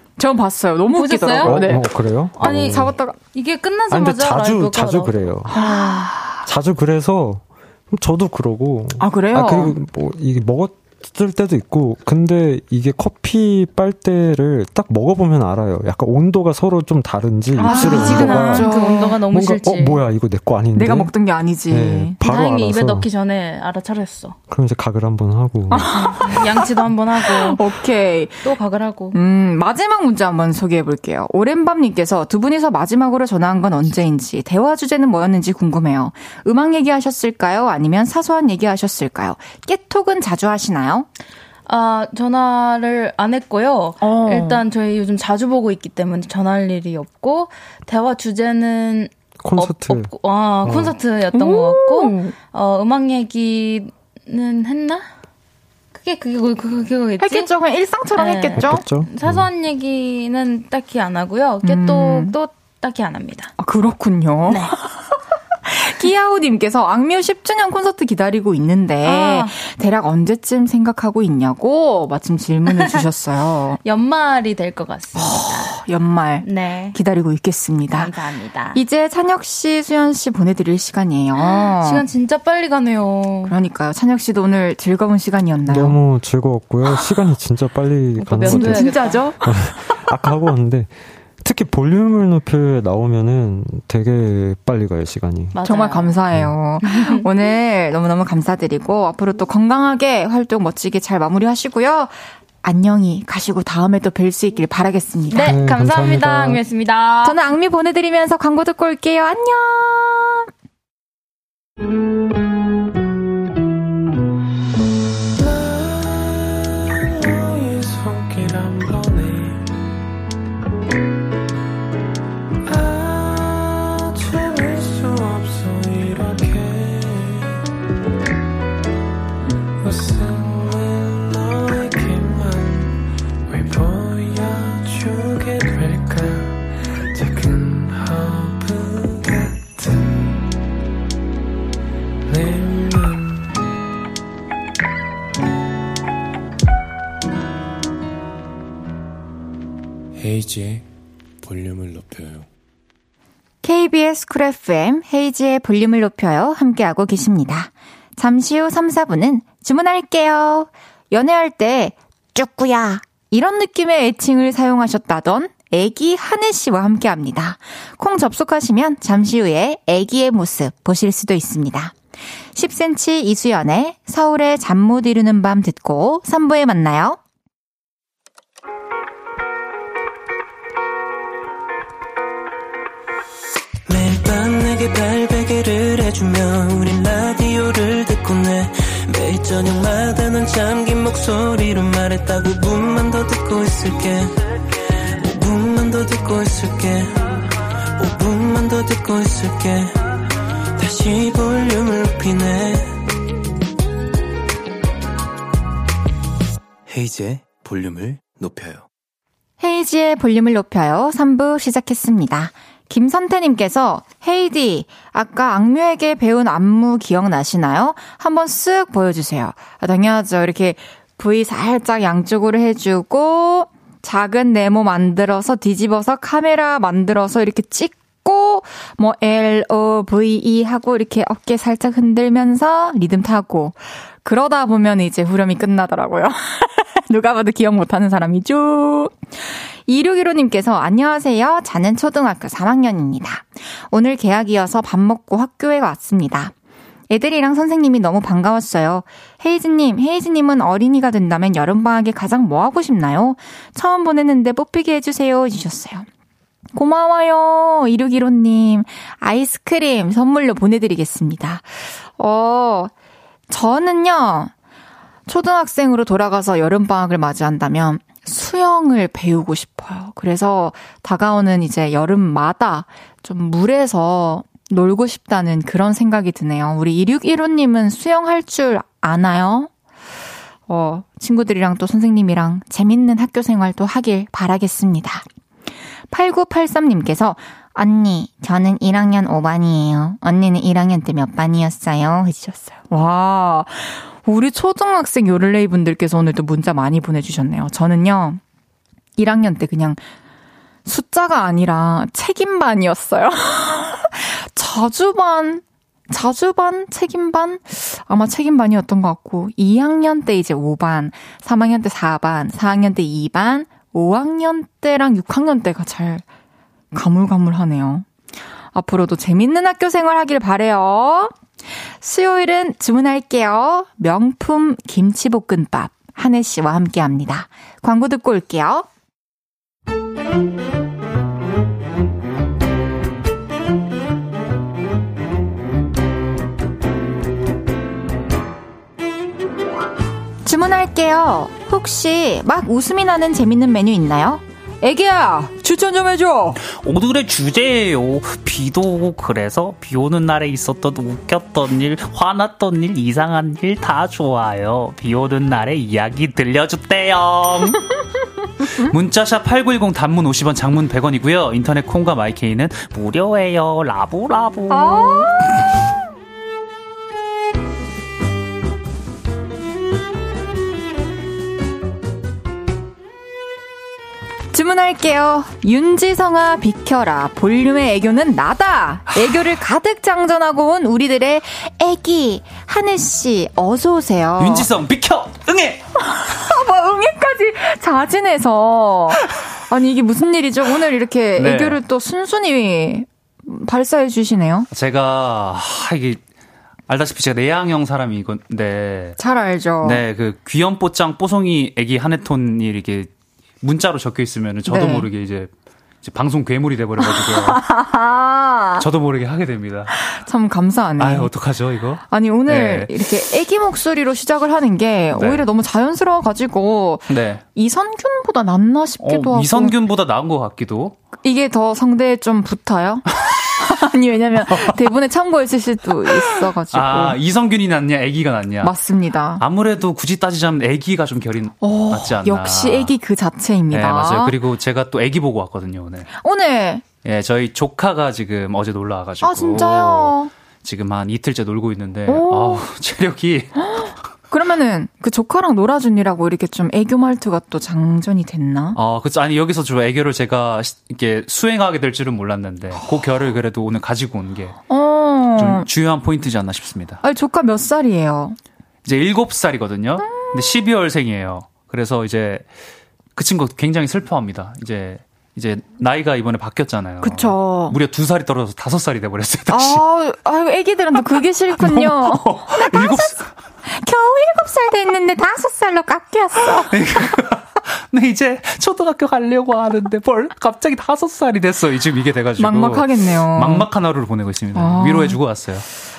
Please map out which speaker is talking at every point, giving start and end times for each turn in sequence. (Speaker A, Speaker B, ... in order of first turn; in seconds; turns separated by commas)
Speaker A: 0.2-1.9, Speaker B: 0.9-1.7, Speaker C: 1.4-2.9, Speaker B: 2.4-6.2, Speaker A: 2.4-3.2, Speaker C: 3.9-5.6, Speaker A: 5.5-6.4, Speaker C: 6.5-18.7, Speaker A: 9.0-9.8, Speaker A: 17.6-19.2, Speaker B: 17.6-20.0, Speaker C: 19.3-21.1, Speaker A: 20.7-22.2, Speaker C: 21.7-23.1, Speaker B: 22.2-24.4, Speaker C: 24.5-26.1, Speaker A: 25.7-28.5, Speaker B: 25.9-27.6, Speaker B: 28.4-29.2, Speaker A: 29.1-41.1, Speaker B: 41.7-55.1, Speaker A: 44.0-44.6, Speaker C: 49.4-50.1, Speaker C: 50.6-50.9, Speaker A: 51.3-52.4, Speaker B: 55.9-57.5, Speaker A: 57.2-58.8, Speaker B: 58.2-63.5, Speaker C: 58.6-59.5, Speaker A: 61.6-62.4, Speaker A: 63.6-73.8, Speaker B: 64.5-64.8, Speaker B: 69.0-69.6, Speaker B: 72.7-73.0, Speaker B: 73.8-75.7, Speaker A: 75.2-78.1, Speaker B: 76.4-77.0, Speaker B: 77.9-78.8, Speaker A: 78.7-82.0, Speaker B: 81.4-83.5, Speaker A: 83.5-86.0, Speaker C: 85.7-95.6, Speaker B: 88.2-89.2, Speaker A: 88.5-89.5, Speaker B: 95.5-96.1, Speaker A: 95.7-105.6, Speaker B: 96.8-97.3, Speaker B: 105.3-107.4, Speaker C: 105.4-106.6, Speaker A: 107.2-110.5, Speaker D: 115.4-119.7, Speaker D: 122.7-127.5, Speaker D: 129.8-136.6, Speaker D: 137.1-140.4, Speaker D: 142.3-143.5, Speaker D: 150.2-150.8, Speaker D: 151.5-152.4, Speaker A: 153.6-171.9, Speaker A: 172.6-177.2, Speaker E: 183.9-194.3, Speaker E: 195.2-197.4, Speaker E: 198.0-199.9, Speaker E: 200.8-202.9, Speaker E: 207.0-207.7, Speaker A: 209.6-239.2, Speaker A: 239.9-246.5, Speaker A: 247.1-256.1, Speaker A: 256.8-262.9, Speaker A: 263.5-264.5, Speaker A: 265.3-279.7, Speaker A: 280.7-285.2, Speaker A: 286.1-298.4, Speaker A: 299.2-300.0, Speaker A: 300.9-316.2, Speaker A: 316.9-318.1, Speaker A: 318.7-321.4, Speaker A: 322.0-328.9, Speaker A: 340.4-346.6, Speaker F: 346.6-357.8, Speaker F: 358.8-365.4, Speaker A: 364.7-365.6, Speaker A: 374.5-384.7, Speaker F: 384.4-385.8, Speaker A: 386.1-394.7, Speaker F: 391.4-391.8, Speaker F: 394.7-396.2, Speaker F: 396.9-399.2, Speaker A: 399.2-400.0, Speaker F: 399.8-403.1, Speaker F: 403.6-405.5, Speaker A: 404.7-405.1, Speaker F: 406.0-407.6, Speaker A: 407.0-408.9, Speaker F: 408.8-409.9, Speaker A: 410.0-411.3, Speaker F: 411.0-412.9, Speaker A: 412.1-419.8, Speaker F: 415.1-415.5, Speaker F: 417.1-417.4, Speaker F: 419.0-421.0, Speaker A: 421.2-427.2, Speaker F: 424.5-424.8, Speaker F: 426.1-428.7, Speaker A: 428.6-429.4, Speaker F: 429.4-432.9, Speaker A: 431.6-434.4, Speaker F: 433.7-436.1, Speaker A: 436.2-436.9, Speaker F: 437.0-443.9, Speaker A: 439.2-440.3, Speaker A: 442.1-442.6, Speaker A: 443.6-448.8, Speaker F: 448.8-454.6, Speaker A: 454.7-455.7, Speaker F: 455.4-457.0, Speaker A: 457.0-458.4, Speaker F: 458.9-462.5, Speaker A: 460.1-460.6, Speaker F: 463.2-469.8, Speaker A: 467.0-467.8, Speaker A: 469.5-476.7, Speaker F: 471.6-473.3, Speaker F: 476.5-485.6, Speaker A: 482.4-483.7, Speaker A: 484.6-485.2